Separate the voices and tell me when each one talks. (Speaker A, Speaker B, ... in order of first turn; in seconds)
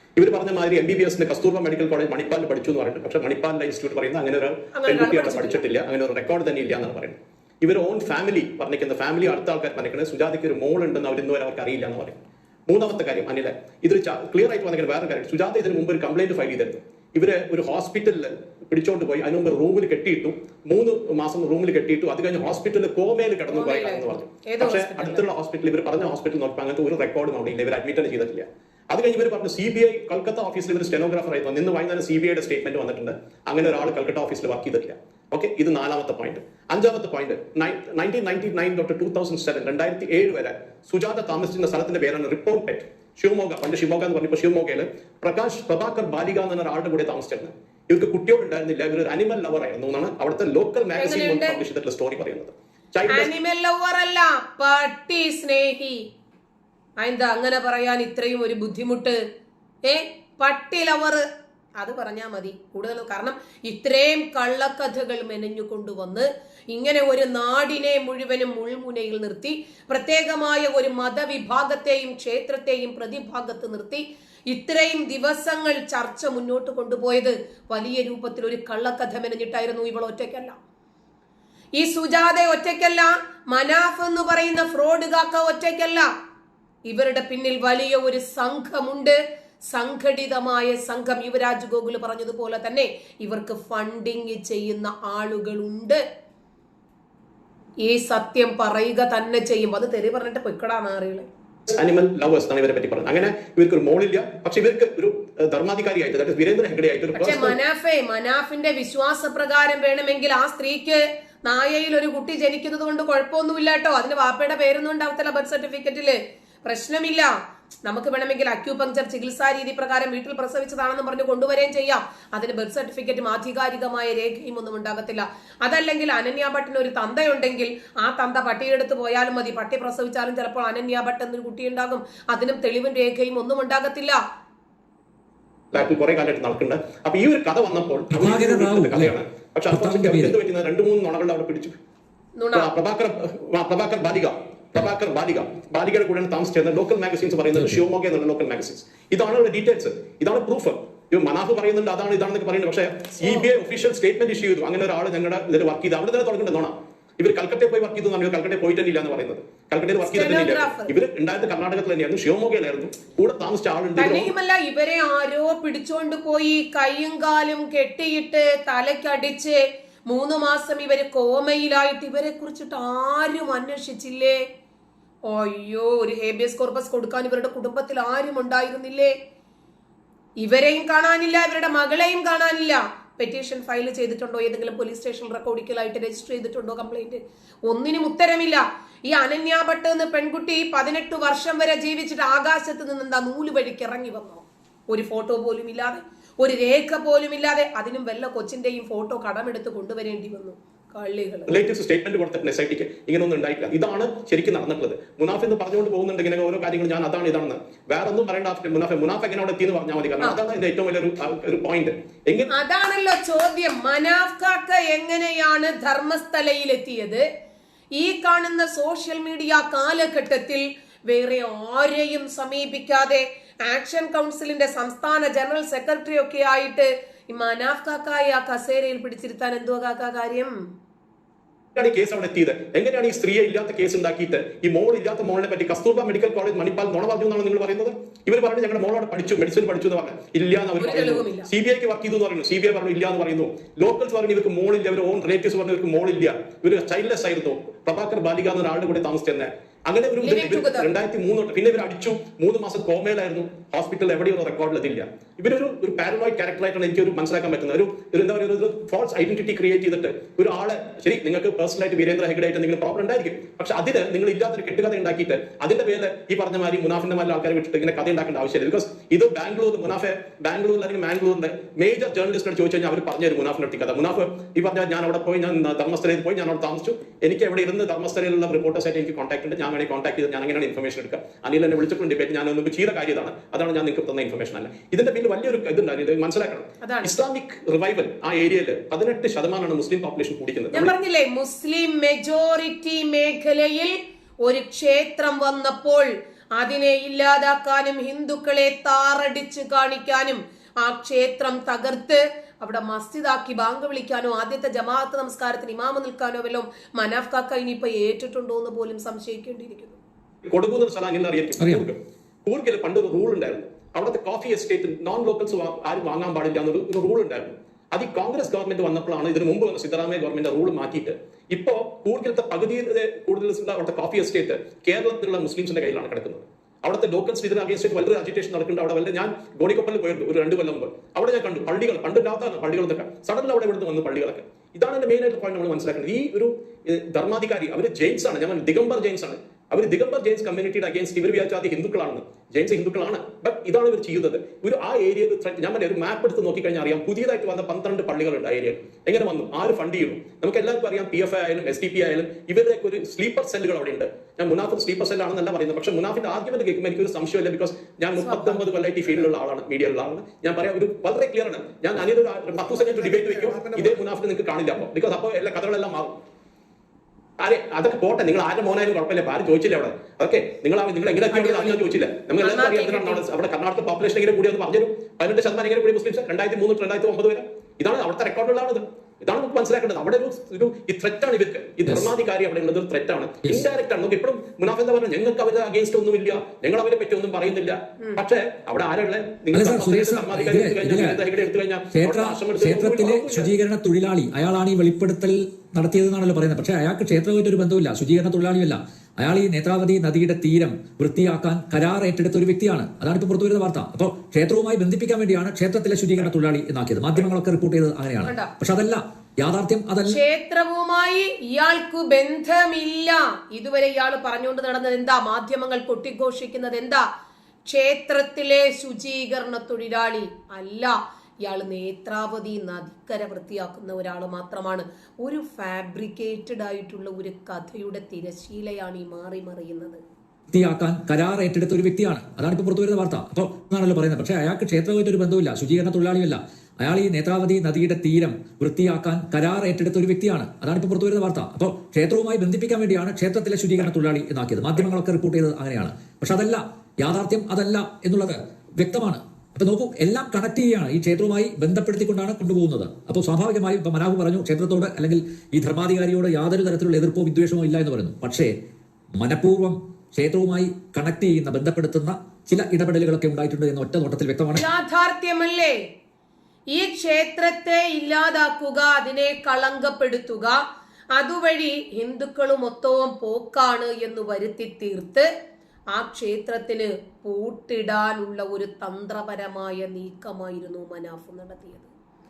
Speaker A: 0.2-53.3, 101.7-107.5, 135.7-141.8, 142.5-164.3, 201.5-212.5, 231.8-290.9, 310.5-366.2, 367.4-393.5
Speaker B: 4.8-5.6, 23.5-25.2, 51.0-51.6, 53.1-56.0, 57.0-59.2, 59.8-61.2, 61.8-80.6, 81.8-86.1, 86.9-89.2, 89.7-96.0, 97.8-101.3, 107.2-117.3, 117.8-134.2, 142.4-142.7, 160.0-160.9, 164.0-174.4, 175.3-179.1, 180.4-201.6, 212.5-217.2, 217.9-230.5, 240.8-241.5, 250.2-250.9, 286.8-287.1, 290.7-310.0, 358.2-358.6, 371.3-371.8, 372.4-373.2, 408.3-408.5, 410.1-417.1, 417.6-430.0, 464.6-465.8, 466.7-470.6, 471.1-475.3, 475.9-481.9
Speaker C: 138.1-139.2, 139.7-140.4, 147.6-147.8, 311.6-311.9, 389.5-391.2, 391.9-410.2, 430.5-458.5, 459.2-464.7